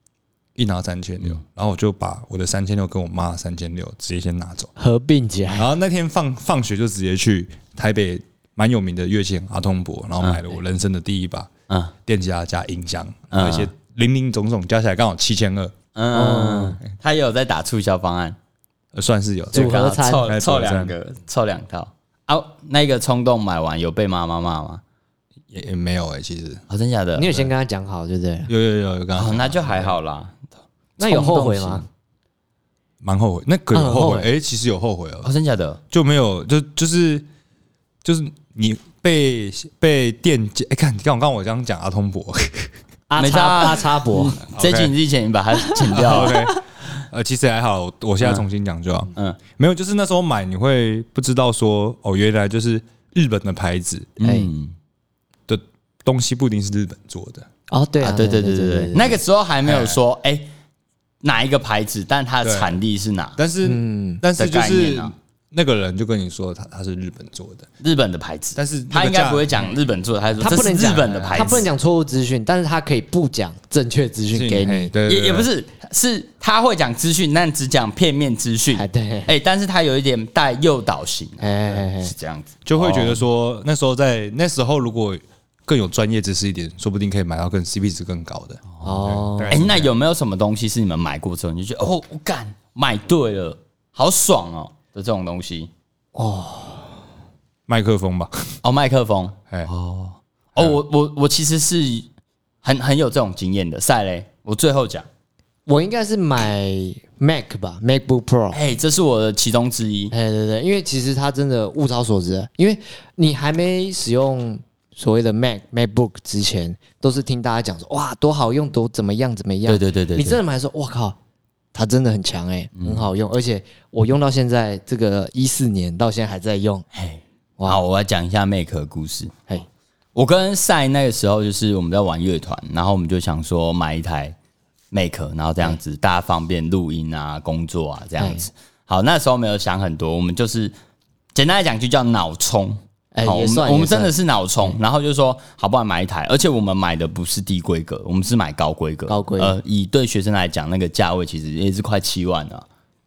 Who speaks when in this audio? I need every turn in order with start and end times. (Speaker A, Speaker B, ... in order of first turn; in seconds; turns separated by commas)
Speaker A: 0.6-4.7, Speaker B: 4.8-5.7, Speaker A: 5.5-11.5, Speaker C: 11.7-11.9, Speaker A: 12.0-15.7, Speaker C: 13.3-13.7, Speaker C: 15.9-18.4, Speaker B: 16.1-16.8, Speaker A: 18.9-20.9, Speaker C: 19.5-24.8, Speaker B: 19.5-20.3, Speaker A: 25.5-26.6, Speaker C: 26.7-27.4, Speaker B: 27.1-28.5, Speaker A: 28.5-29.9, Speaker C: 29.1-30.4, Speaker C: 31.0-31.9, Speaker B: 31.0-31.8, Speaker A: 33.0-35.3, Speaker B: 33.7-34.3, Speaker C: 35.2-35.8, Speaker A: 35.9-37.2, Speaker A: 38.0-42.8, Speaker B: 43.1-44.4, Speaker C: 43.2-46.5, Speaker A: 44.5-44.9, Speaker A: 45.9-54.2, Speaker C: 49.1-49.4, Speaker C: 54.2-54.7, Speaker B: 54.2-54.5, Speaker A: 55.5-57.5, Speaker B: 57.7-59.2, Speaker C: 58.0-60.5, Speaker A: 59.6-60.0, Speaker C: 61.2-63.4, Speaker A: 62.4-62.8, Speaker A: 63.4-67.7, Speaker B: 63.6-64.2, Speaker C: 64.4-65.1, Speaker C: 67.8-71.7, Speaker A: 68.5-69.6, Speaker B: 70.4-74.9, Speaker A: 74.3-75.5, Speaker C: 75.0-83.2, Speaker B: 78.7-79.3, Speaker B: 81.4-82.1, Speaker A: 82.7-89.9, Speaker B: 88.8-89.6, Speaker C: 89.5-95.7, Speaker B: 96.1-97.0, Speaker A: 97.7-98.6, Speaker C: 98.6-102.1, Speaker C: 102.6-105.1, Speaker B: 105.7-108.6, Speaker C: 108.5-110.1, Speaker B: 110.1-121.2, Speaker C: 119.7-120.4, Speaker B: 121.7-126.8, Speaker C: 122.8-123.1, Speaker C: 126.9-129.5, Speaker C: 130.1-134.3, Speaker C: 134.9-140.7, Speaker B: 138.2-138.5, Speaker C: 141.3-152.7, Speaker B: 143.1-144.7, Speaker B: 149.1-149.6